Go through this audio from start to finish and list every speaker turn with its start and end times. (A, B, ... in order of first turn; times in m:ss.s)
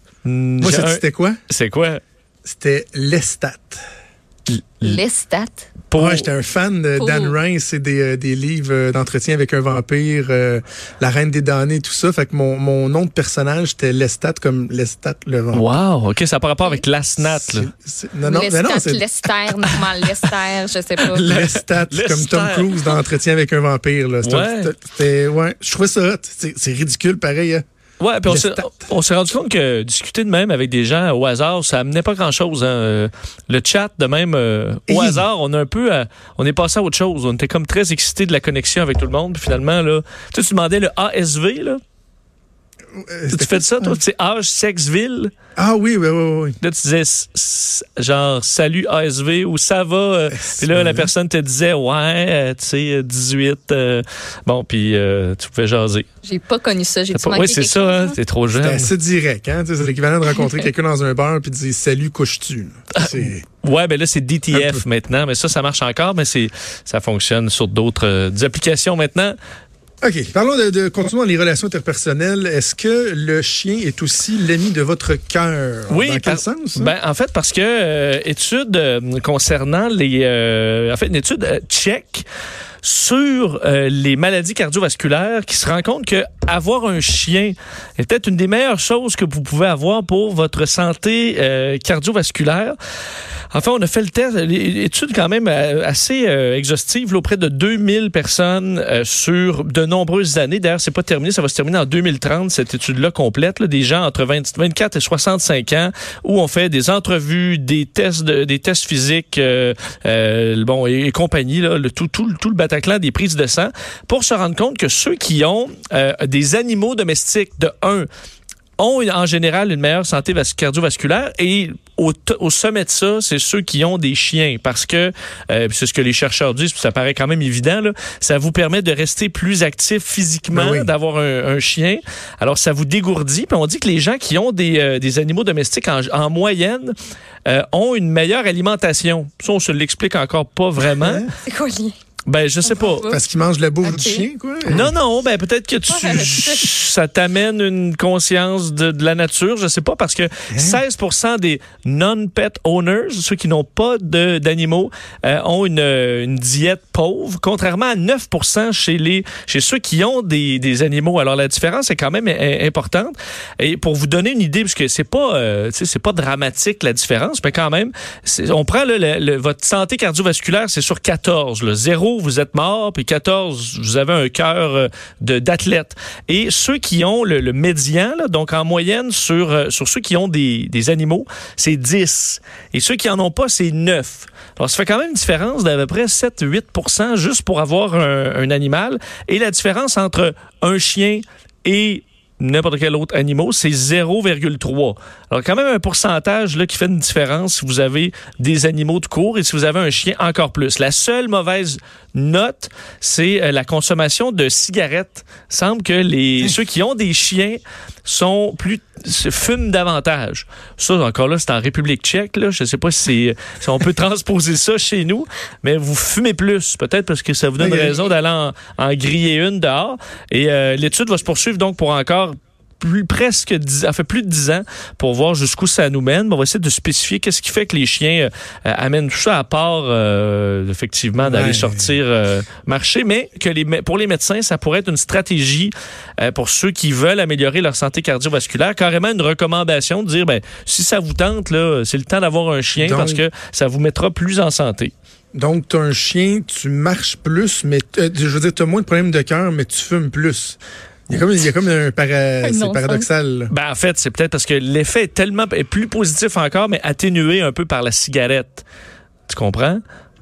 0:00.2-0:02.0 A
0:00.6-0:01.4 B
0:02.4-0:03.8 B
0:04.5-0:05.0 A
0:04.8-0:05.7 C
0:05.9-0:06.3 A
0:05.9-0:15.6 B
0:07.0-0:07.3 C
0:15.5-0:17.7 A
0:17.2-0:19.0 B
0:18.2-0:21.3 C
0:21.0-0:22.9 A
0:21.2-0:27.6 B
0:24.2-0:24.7 A
0:28.0-0:41.8 A
0:28.3-0:28.8 B
0:34.9-0:35.2 B
0:43.0-0:44.0 B
0:43.3-0:45.3 A
0:45.6-0:46.6 B
0:46.6-0:56.0 A
0:50.3-0:51.1 B
0:56.2-0:58.2 C
0:57.1-0:58.9 A
0:58.5-1:03.4 B
1:03.0-1:09.4 A
1:04.5-1:04.8 B
1:10.0-1:16.9 B
1:15.9-1:22.2 A
1:22.8-1:32.8 A
1:33.5-1:58.1 A
1:58.8-2:16.9 A
2:10.5-2:10.9 B
2:17.4-2:21.2 A
2:21.0-2:21.3 B
2:21.4-2:21.9 C
2:22.3-2:23.1 A
2:22.7-2:23.3 C
2:23.1-2:24.9 B
2:23.8-2:24.2 C
2:24.7-4:04.9 A
2:25.9-2:26.7 C
2:30.5-2:30.8 B
3:37.6-3:38.0 B
3:51.2-3:51.9 B
4:02.8-4:03.2 B
4:05.3-4:13.5 B
4:12.4-4:13.1 C
4:13.5-4:18.6 A
4:19.3-4:19.8 A